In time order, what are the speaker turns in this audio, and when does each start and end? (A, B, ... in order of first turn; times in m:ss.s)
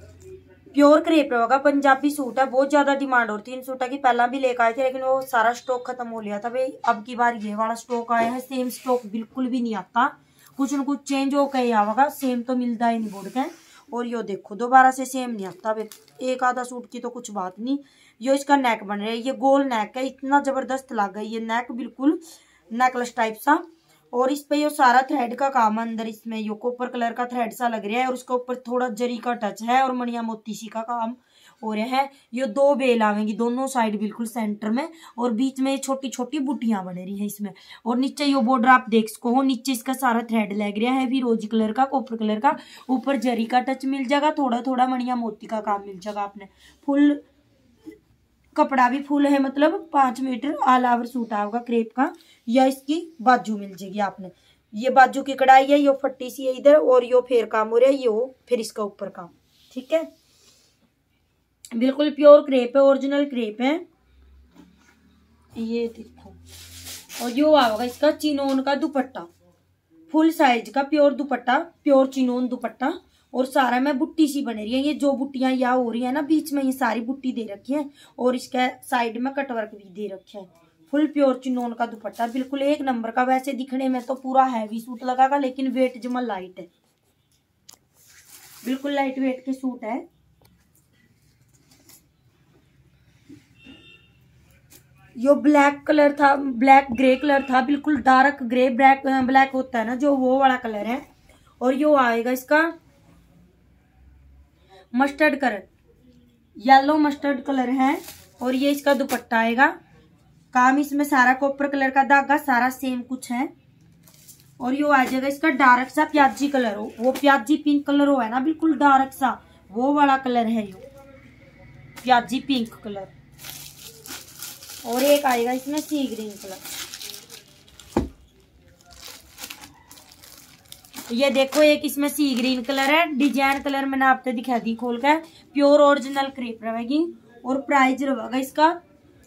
0:00.7-0:47.2 A
0:48.6-1:00.1 A
1:01.7-1:03.8 A
1:05.6-1:06.4 A
1:07.2-1:09.3 A
1:10.1-1:26.7 A
1:28.6-1:30.0 A
1:35.2-1:41.0 A
1:41.6-1:42.7 A
1:44.9-1:45.7 A
1:46.6-1:49.7 A
1:50.5-1:53.5 A
1:54.6-2:00.8 A
2:02.0-2:03.1 A
2:04.8-2:06.6 A
2:11.1-2:18.8 A